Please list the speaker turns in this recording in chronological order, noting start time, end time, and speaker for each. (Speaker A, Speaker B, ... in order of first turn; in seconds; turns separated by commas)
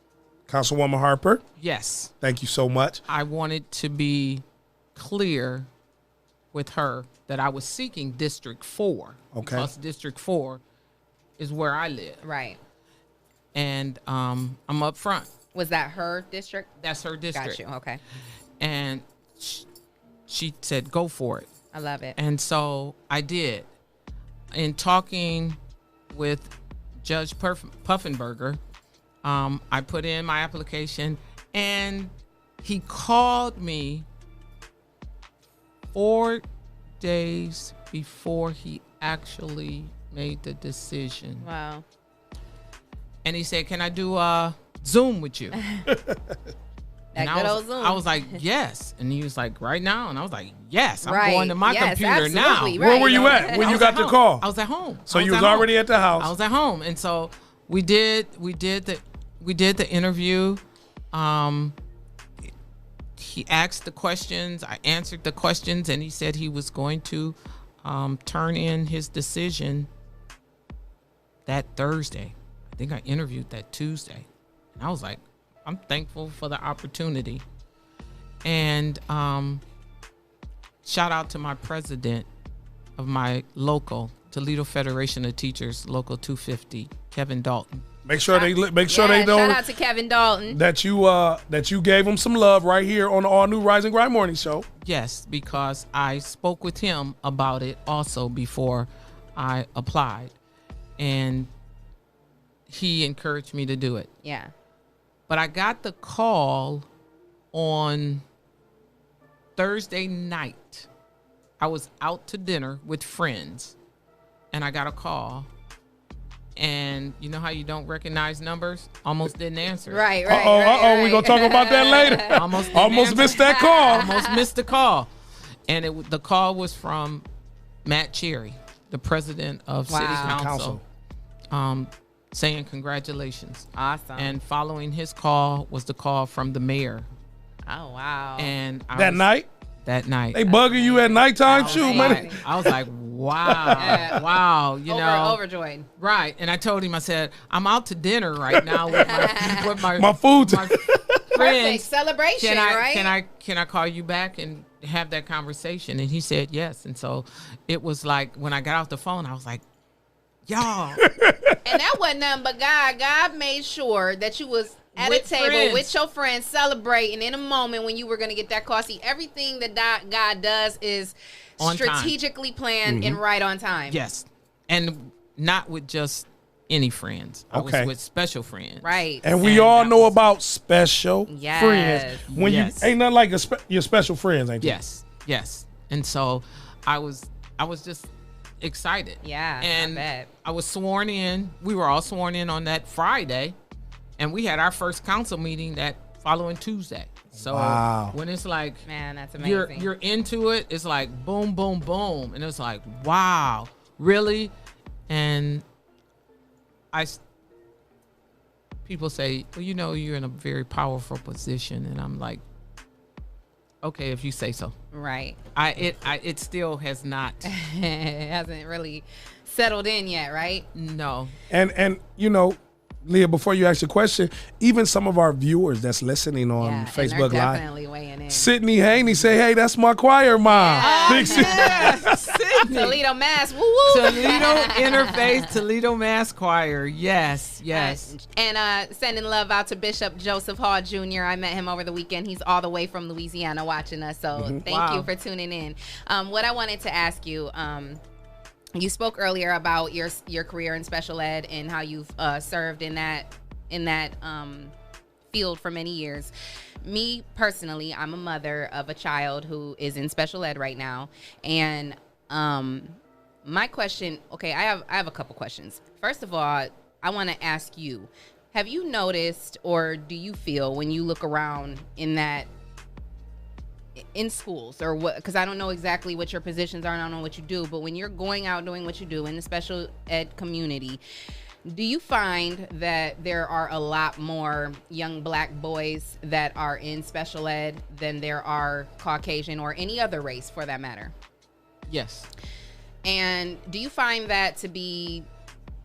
Speaker A: 0.5-1.4, Speaker B: 1.6-2.1, Speaker A: 2.2-3.0, Speaker B: 3.1-4.4, Speaker B: 5.0-5.7, Speaker B: 6.5-10.6, Speaker A: 9.3-9.7, Speaker B: 11.4-12.2, Speaker C: 12.2-12.6, Speaker B: 13.5-15.3, Speaker C: 15.5-16.7, Speaker B: 16.8-17.6, Speaker C: 17.3-18.0, Speaker B: 18.6-19.7, Speaker B: 20.3-21.5, Speaker C: 21.7-22.2, Speaker B: 22.2-23.7, Speaker B: 24.5-25.6, Speaker B: 26.1-28.6, Speaker B: 29.2-32.1, Speaker B: 32.6-34.0, Speaker B: 35.9-36.4, Speaker B: 37.0-41.5, Speaker C: 41.4-41.8, Speaker B: 43.2-45.6, Speaker C: 45.6-45.9, Speaker A: 45.9-46.3, Speaker C: 47.1-48.4, Speaker B: 47.2-61.8, Speaker C: 51.0-53.8, Speaker A: 52.8-54.5, Speaker A: 55.1-56.3, Speaker B: 63.2-69.9, Speaker B: 71.5-77.4, Speaker B: 78.4-79.6, Speaker B: 80.8-82.3, Speaker B: 83.0-87.8, Speaker A: 88.0-89.6, Speaker C: 88.2-90.6, Speaker A: 90.5-94.7, Speaker B: 94.8-100.3, Speaker B: 101.0-101.5, Speaker B: 102.7-104.1, Speaker C: 104.2-104.5, Speaker B: 105.3-106.9, Speaker B: 107.5-108.2, Speaker B: 109.6-110.9, Speaker B: 111.6-113.8, Speaker B: 114.5-115.5, Speaker B: 116.6-120.1, Speaker C: 119.9-122.4, Speaker A: 120.3-124.1, Speaker B: 122.3-125.1, Speaker C: 123.1-124.5, Speaker B: 125.7-127.2, Speaker B: 127.8-130.8, Speaker C: 129.9-130.4, Speaker A: 130.2-130.8, Speaker B: 131.5-137.1, Speaker C: 133.8-134.3, Speaker C: 137.7-138.5, Speaker B: 138.4-139.2, Speaker A: 138.9-139.5, Speaker B: 139.8-145.4, Speaker A: 140.3-142.8, Speaker C: 141.4-142.4, Speaker A: 143.4-144.2, Speaker C: 143.8-144.2, Speaker C: 144.9-145.9, Speaker B: 146.0-159.6, Speaker A: 148.5-148.8, Speaker C: 148.9-149.7, Speaker A: 149.9-151.2, Speaker C: 151.3-153.1, Speaker B: 160.5-161.1, Speaker A: 161.0-161.6, Speaker C: 161.6-174.0, Speaker B: 165.0-165.9, Speaker B: 171.6-172.2, Speaker A: 172.8-173.2, Speaker B: 173.9-180.2, Speaker A: 177.5-177.9, Speaker C: 178.8-179.3, Speaker A: 179.2-184.8, Speaker C: 181.3-182.3, Speaker B: 182.3-182.9, Speaker B: 184.6-188.1, Speaker B: 188.6-193.6, Speaker C: 189.2-190.3, Speaker B: 194.2-198.8, Speaker A: 197.4-198.2, Speaker C: 198.8-199.9, Speaker B: 199.4-204.5, Speaker B: 205.1-205.6, Speaker B: 206.9-207.2, Speaker B: 208.8-212.4, Speaker B: 213.8-214.7, Speaker C: 214.9-215.4, Speaker B: 215.5-217.5, Speaker C: 217.5-220.7, Speaker B: 220.7-221.3, Speaker A: 221.5-227.6, Speaker C: 226.6-228.5, Speaker A: 228.3-232.3, Speaker C: 230.4-235.5, Speaker B: 230.8-233.0, Speaker B: 233.8-238.1, Speaker C: 237.7-248.0, Speaker A: 244.3-244.6, Speaker B: 244.7-245.1, Speaker C: 248.8-254.7, Speaker C: 255.3-256.3, Speaker C: 256.8-272.5, Speaker C: 274.0-281.0, Speaker C: 281.7-291.1, Speaker B: 291.9-292.3, Speaker C: 293.0-295.3